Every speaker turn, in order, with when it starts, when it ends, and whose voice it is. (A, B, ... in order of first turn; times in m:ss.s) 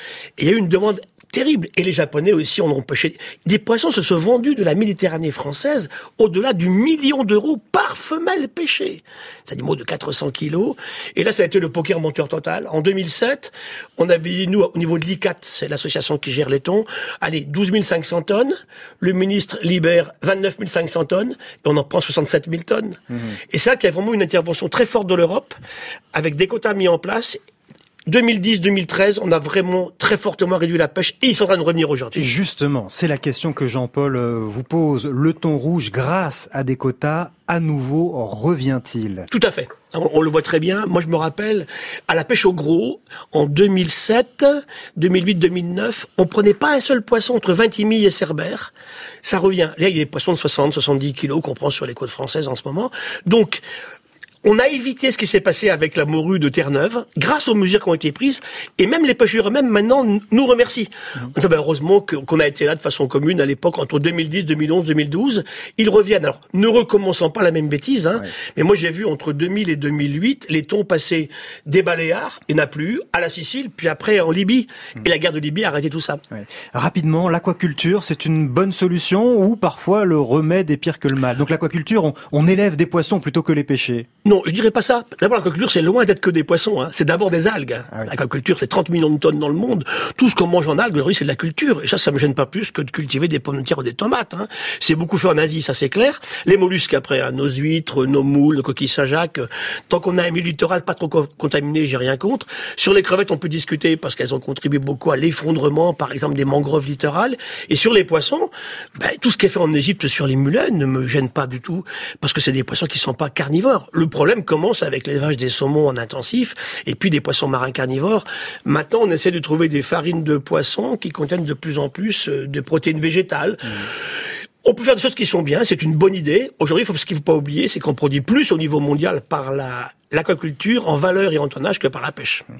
0:00.4-0:23.0 A
0:23.1-0:23.4 B
0:23.5-0:25.6 A
0:26.1-0:27.4 A
0:28.1-0:32.3 A
0:32.2-0:39.3 B
0:39.3-0:48.7 A
0:49.2-0:53.6 A
0:54.4-1:16.2 A
1:16.3-1:24.1 B
1:24.2-2:03.9 A
2:04.6-2:12.4 A